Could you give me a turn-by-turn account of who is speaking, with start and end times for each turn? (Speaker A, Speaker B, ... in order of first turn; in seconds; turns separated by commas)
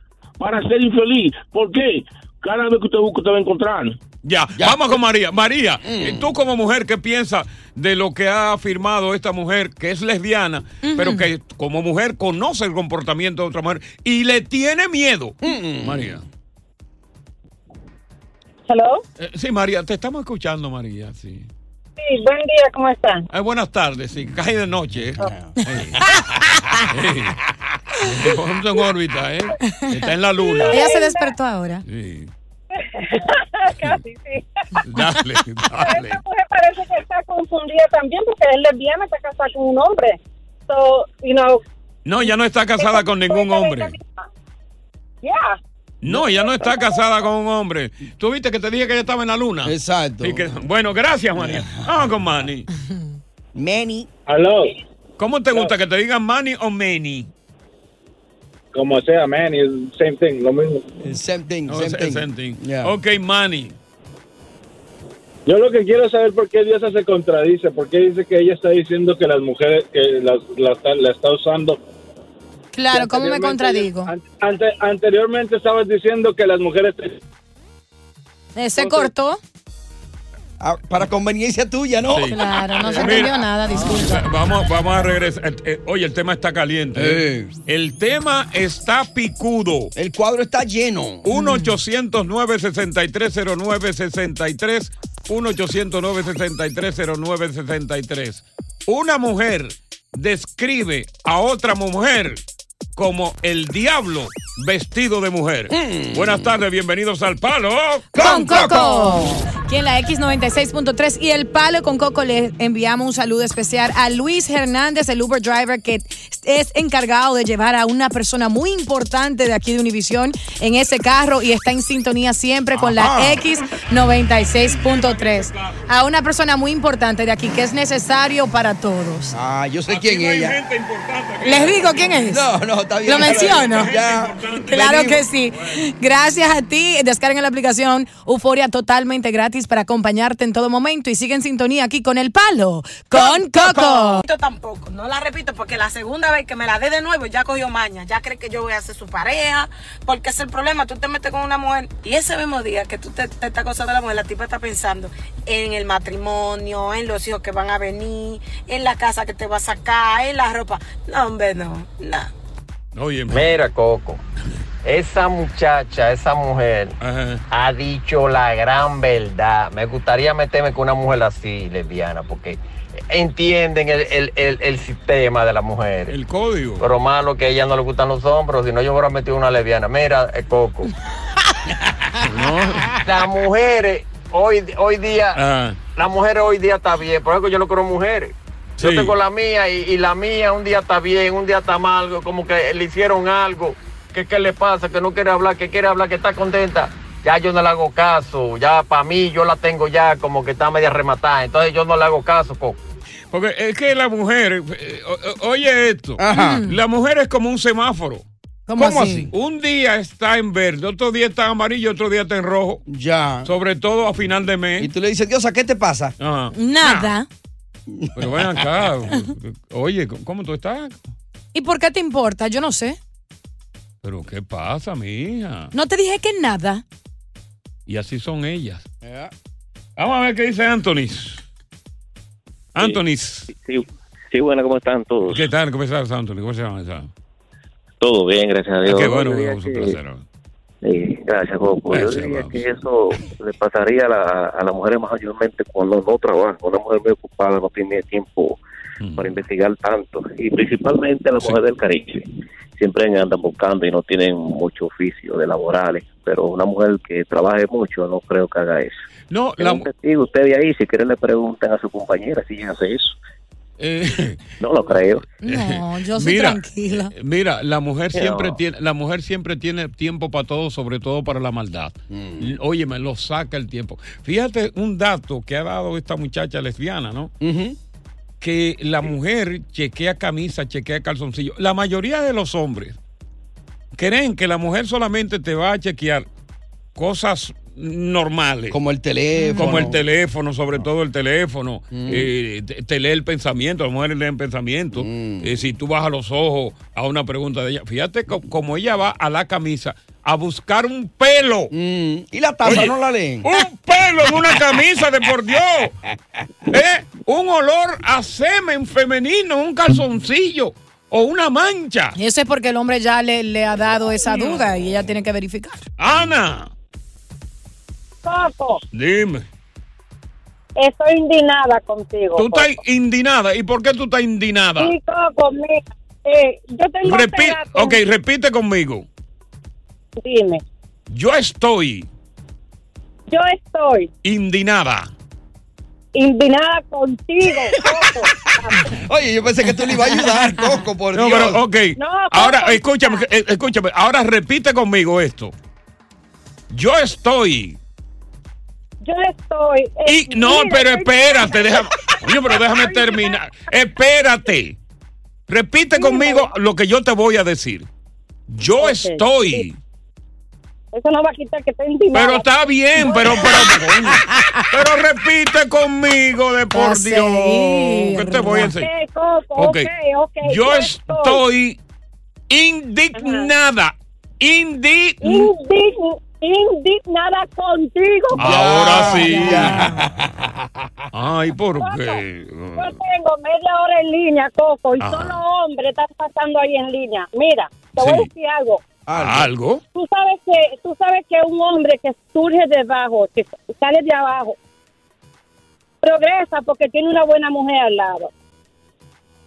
Speaker A: 0.4-4.0, Speaker B: 4.2-16.2, Speaker C: 4.6-5.0, Speaker C: 5.8-6.3, Speaker D: 10.8-11.3, Speaker C: 15.4-16.2, Speaker E: 18.7-19.0, Speaker B: 19.2-21.5, Speaker E: 22.0-23.2, Speaker B: 23.3-26.0, Speaker C: 25.2-25.6, Speaker B: 26.9-27.4, Speaker B: 28.0-30.9, Speaker D: 29.6-29.9, Speaker E: 30.4-31.3, Speaker D: 30.6-31.9, Speaker B: 31.9-32.3, Speaker E: 32.7-34.8, Speaker B: 34.9-36.2, Speaker E: 35.9-41.6, Speaker B: 42.1-44.0, Speaker E: 42.8-44.1, Speaker E: 45.2-45.5, Speaker B: 46.0-52.7, Speaker F: 46.1-46.7, Speaker E: 46.7-47.0, Speaker C: 49.6-50.5, Speaker C: 51.4-52.0, Speaker C: 53.5-54.1, Speaker G: 54.3-54.7, Speaker B: 55.2-57.3, Speaker G: 58.7-60.9, Speaker C: 61.0-63.0, Speaker B: 61.7-63.8, Speaker G: 65.5-71.8, Speaker D: 72.7-74.1, Speaker G: 72.9-77.2, Speaker D: 78.5-79.4, Speaker G: 78.8-79.1, Speaker C: 80.6-83.2, Speaker B: 82.0-82.4, Speaker D: 82.3-84.3, Speaker B: 83.0-89.9, Speaker C: 87.0-87.5, Speaker C: 90.0-91.3, Speaker B: 91.2-102.4, Speaker D: 91.3-91.7, Speaker B: 103.0-108.3, Speaker C: 105.7-106.5, Speaker C: 108.1-109.5, Speaker D: 108.2-129.4, Speaker C: 122.7-123.4, Speaker B: 124.5-125.8, Speaker C: 129.3-130.6, Speaker B: 129.9-132.2, Speaker D: 131.4-133.9, Speaker C: 132.3-135.2, Speaker B: 133.1-135.8, Speaker D: 134.7-144.2, Speaker H: 143.1-162.3, Speaker B: 162.9-163.6, Speaker I: 163.3-164.2, Speaker I: 164.9-166.9, Speaker B: 167.0-167.4, Speaker I: 167.6-172.6, Speaker I: 173.1-176.1, Speaker B: 176.1-176.9, Speaker I: 176.8-180.9, Speaker B: 182.2-183.0, Speaker I: 183.0-185.3, Speaker B: 185.3-185.8, Speaker I: 186.0-188.3, Speaker B: 188.8-189.2, Speaker I: 188.8-202.8, Speaker B: 203.3-208.2, Speaker C: 206.2-206.7, Speaker D: 206.3-206.8, Speaker D: 208.7-209.3, Speaker C: 208.8-209.3, Speaker B: 209.3-212.8, Speaker C: 212.9-213.5, Speaker B: 213.4-214.9, Speaker C: 214.8-216.1, Speaker B: 216.2-217.1, Speaker D: 216.5-217.3, Speaker C: 217.9-218.6, Speaker B: 218.2-221.1, Speaker D: 221.5-223.0, Speaker B: 224.0-225.7, Speaker D: 225.7-226.8, Speaker B: 227.9-228.8, Speaker C: 229.0-229.3, Speaker B: 230.0-231.4, Speaker B: 232.8-233.5, Speaker F: 232.8-235.5, Speaker B: 235.3-237.1, Speaker F: 238.0-240.0, Speaker B: 238.8-240.2, Speaker F: 240.8-248.6, Speaker B: 241.9-243.2, Speaker B: 249.0-249.4, Speaker F: 249.2-258.9, Speaker B: 259.3-259.9, Speaker F: 259.6-263.2, Speaker B: 263.8-264.4, Speaker F: 264.6-265.3, Speaker D: 265.4-267.1, Speaker B: 265.4-277.3, Speaker F: 268.1-268.6, Speaker C: 272.1-272.5, Speaker C: 277.4-277.8, Speaker B: 278.4-283.0, Speaker B: 283.9-286.3, Speaker B: 287.0-288.8, Speaker C: 288.7-290.0, Speaker D: 289.4-289.9, Speaker B: 289.6-301.7, Speaker C: 291.9-292.3, Speaker C: 294.9-295.5, Speaker C: 301.7-303.5, Speaker B: 302.6-305.9, Speaker B: 306.7-312.2, Speaker D: 312.2-315.8, Speaker E: 314.3-314.6, Speaker B: 316.0-316.7, Speaker E: 318.2-318.8, Speaker B: 318.9-319.5, Speaker E: 320.8-322.7, Speaker B: 322.4-324.9, Speaker E: 324.8-328.0, Speaker B: 327.0-329.1, Speaker E: 330.2-330.6, Speaker B: 331.1-332.1, Speaker E: 333.3-334.1, Speaker B: 334.2-335.1, Speaker E: 336.1-338.9, Speaker C: 337.7-341.6, Speaker B: 341.1-345.5, Speaker E: 341.9-343.2, Speaker B: 346.7-347.8, Speaker E: 349.0-353.4, Speaker B: 350.1-354.8, Speaker B: 355.5-357.9, Speaker E: 355.9-356.5, Speaker B: 358.5-359.8, Speaker E: 358.8-359.7, Speaker E: 360.9-363.8, Speaker B: 362.1-368.9, Speaker D: 366.7-368.7, Speaker E: 368.7-371.4, Speaker B: 369.6-369.9, Speaker B: 370.4-371.8, Speaker B: 372.5-375.5, Speaker E: 373.1-373.5, Speaker E: 375.2-379.5, Speaker B: 378.4-380.0, Speaker C: 378.4-380.5, Speaker D: 379.1-379.9, Speaker B: 381.1-382.9, Speaker E: 381.8-382.2, Speaker E: 382.8-388.8, Speaker B: 385.0-385.4, Speaker B: 388.0-388.3, Speaker C: 389.1-389.5, Speaker B: 389.1-389.8, Speaker E: 389.9-394.6, Speaker E: 396.0-398.3